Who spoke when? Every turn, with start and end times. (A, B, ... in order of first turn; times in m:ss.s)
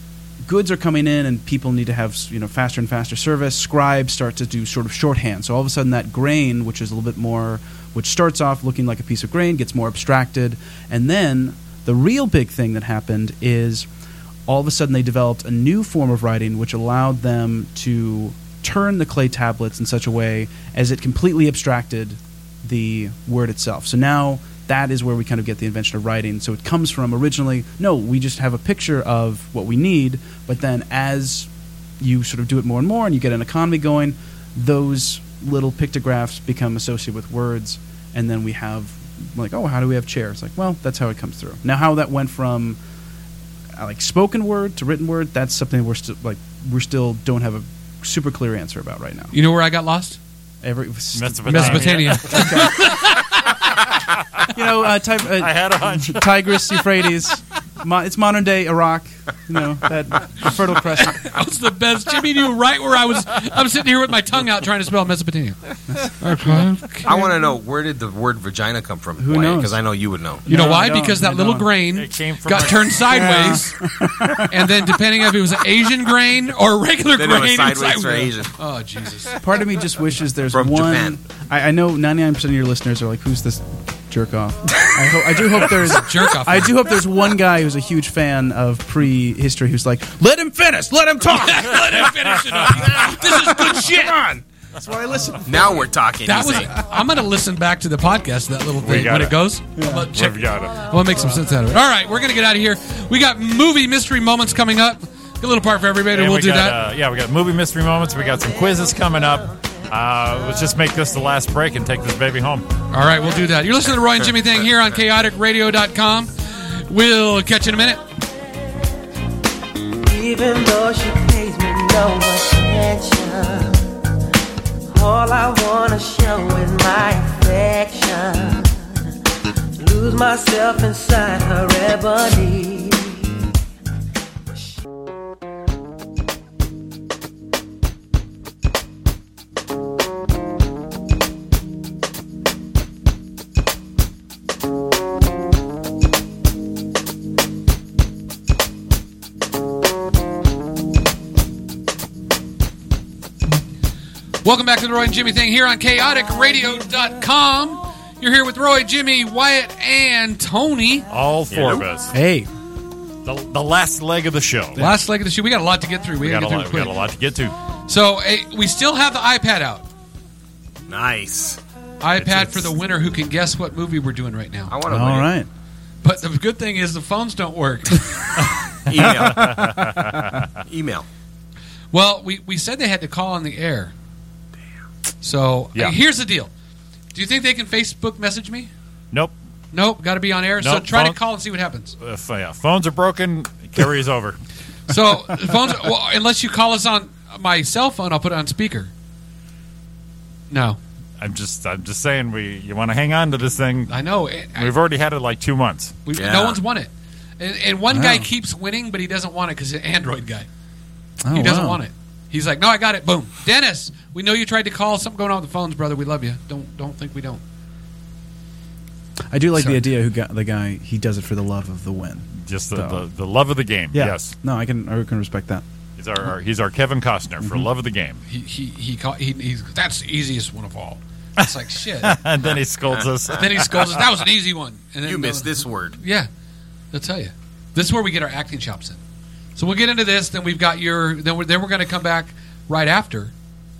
0:00.4-0:13.9 A
0:14.5-0:31.5 A
0:32.0-0:42.8 A
0:43.8-0:49.3 A
0:49.3-0:50.2 B
0:50.6-0:53.0 A
0:51.1-0:52.8 C
0:51.5-0:53.7 B
0:54.5-1:01.2 A
0:55.2-0:56.8 C
1:00.9-1:07.1 B
1:05.9-1:07.4 A
1:07.0-1:10.4 D
1:09.2-1:09.8 A
1:10.4-1:11.7 A
1:10.5-1:13.8 B
1:11.9-1:13.0 C
1:13.1-1:14.9 A
1:14.4-1:19.4 B
1:17.1-1:18.5 D
1:19.4-1:35.9 A
1:20.5-1:21.2 D
1:25.6-1:26.8 B
1:31.2-1:34.2 B
1:35.4-1:36.7 D
1:36.2-1:46.8 B
1:38.8-1:39.4 C
1:39.8-1:40.1 A
1:40.1-1:40.8 C
1:46.1-1:52.7 C
1:52.9-1:58.0 B
2:00.0-2:03.8 E
2:04.9-2:09.1 E
2:09.8-2:13.3 E
2:34.4-2:41.1 B
2:41.1-2:42.1 C
2:41.5-2:41.8 D
2:42.1-2:42.5 A
2:43.2-2:44.8 C
2:44.8-2:47.0 B
2:46.2-2:47.5 C
2:47.9-2:49.9 B
2:50.9-2:51.6 D
2:52.0-2:54.7 B
2:52.2-2:52.7 C
2:54.7-2:55.3 D
2:54.8-2:55.5 A
2:56.0-2:58.1 B
2:58.9-2:59.8 D
2:58.9-3:00.3 C
2:59.0-3:00.3 A
3:00.6-3:01.0 D
3:01.9-3:03.9 B
3:05.2-3:06.5 B
3:07.1-3:08.7 B
3:09.7-3:11.9 B
3:10.6-3:11.2 C
3:12.0-3:14.4 C
3:14.9-3:18.9 B
3:20.5-3:20.8 B
3:21.2-3:24.0 C
3:23.9-3:24.7 B
3:24.6-3:26.0 C
3:26.0-3:30.5 B
3:26.1-3:26.6 D
3:27.9-3:28.3 A
3:31.2-3:31.8 A
3:31.3-3:37.4 B
3:39.3-3:43.0 A
3:39.6-3:39.8 B
3:42.4-3:44.3 C
3:43.9-3:45.6 A
3:46.0-3:48.2 C
3:48.3-3:52.2 B
3:52.0-3:54.0 C
3:53.4-3:56.3 B
3:55.0-3:56.0 D
3:56.9-3:59.0 B
3:59.6-4:03.3 B